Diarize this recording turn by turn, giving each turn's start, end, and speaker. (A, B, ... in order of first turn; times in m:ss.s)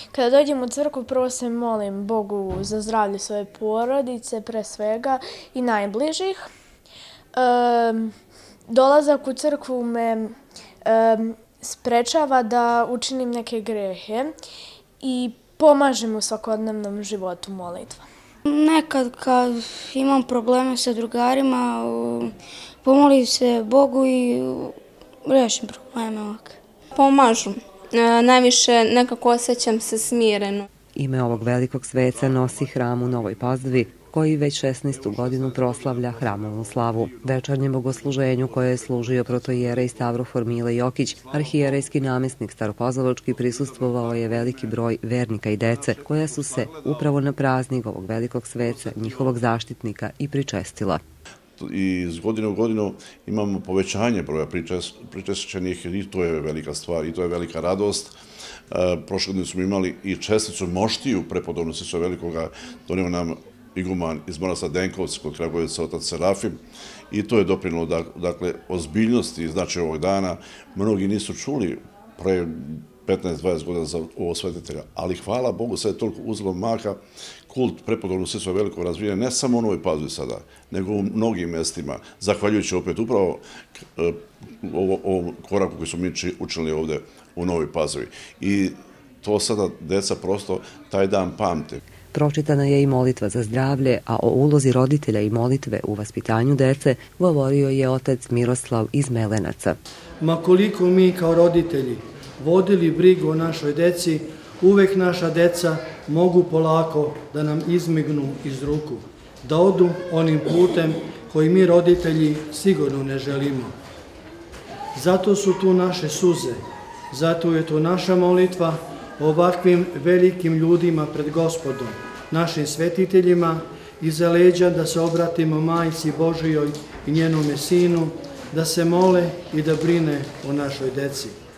0:00.1-0:06.4 A
0:07.4-0:08.1 A
0:08.7-0:10.3 A
0:10.8-0:14.3 A
0:15.0-0:18.0 A
0:18.5-0:26.6 B
0:27.0-0:30.7 C
0:31.0-0:51.0 D
0:51.6-0:58.2 E
0:58.7-1:06.6 E
1:07.1-1:31.8 E
1:32.1-1:39.8 D
1:40.2-1:53.7 F
1:54.9-2:11.3 F